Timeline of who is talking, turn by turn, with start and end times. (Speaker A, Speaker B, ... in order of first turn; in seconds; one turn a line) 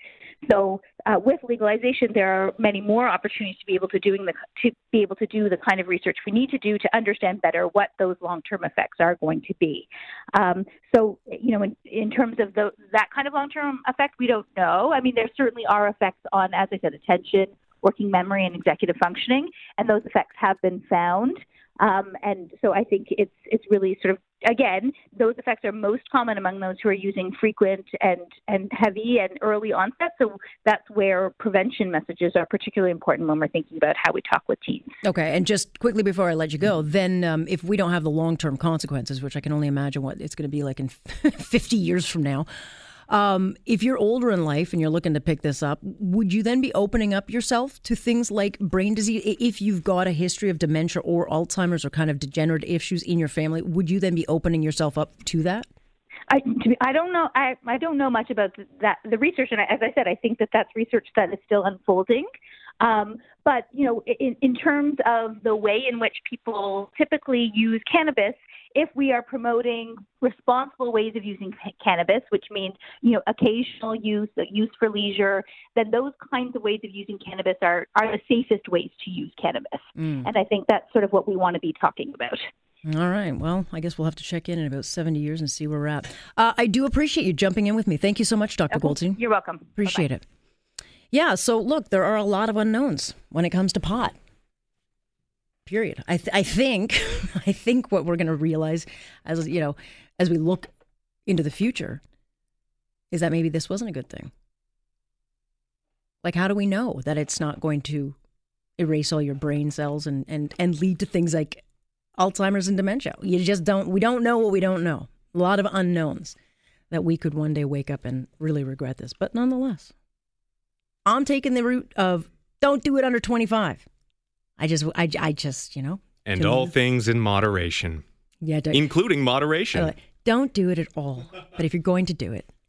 Speaker A: 0.4-35.0
Speaker B: 35.0-42.5
Speaker B: 43.1-55.7
Speaker A: 56.3-62.3
Speaker A: 62.8-82.4
Speaker B: 80.0-80.2
Speaker B: 82.8-89.2
Speaker A: 88.7-90.1
Speaker B: 89.8-90.2
Speaker B: 91.1-94.2
Speaker B: 95.7-100.7
Speaker B: 101.3-102.0
Speaker B: 103.1-104.3
Speaker B: 106.2-108.2
Speaker B: 108.8-111.6
Speaker B: 112.2-116.3
Speaker B: 116.9-119.9
Speaker B: 121.0-123.8
Speaker B: 124.6-126.7
Speaker C: 126.2-128.0
Speaker B: 128.4-128.9
Speaker C: 128.7-129.9
Speaker B: 129.7-132.5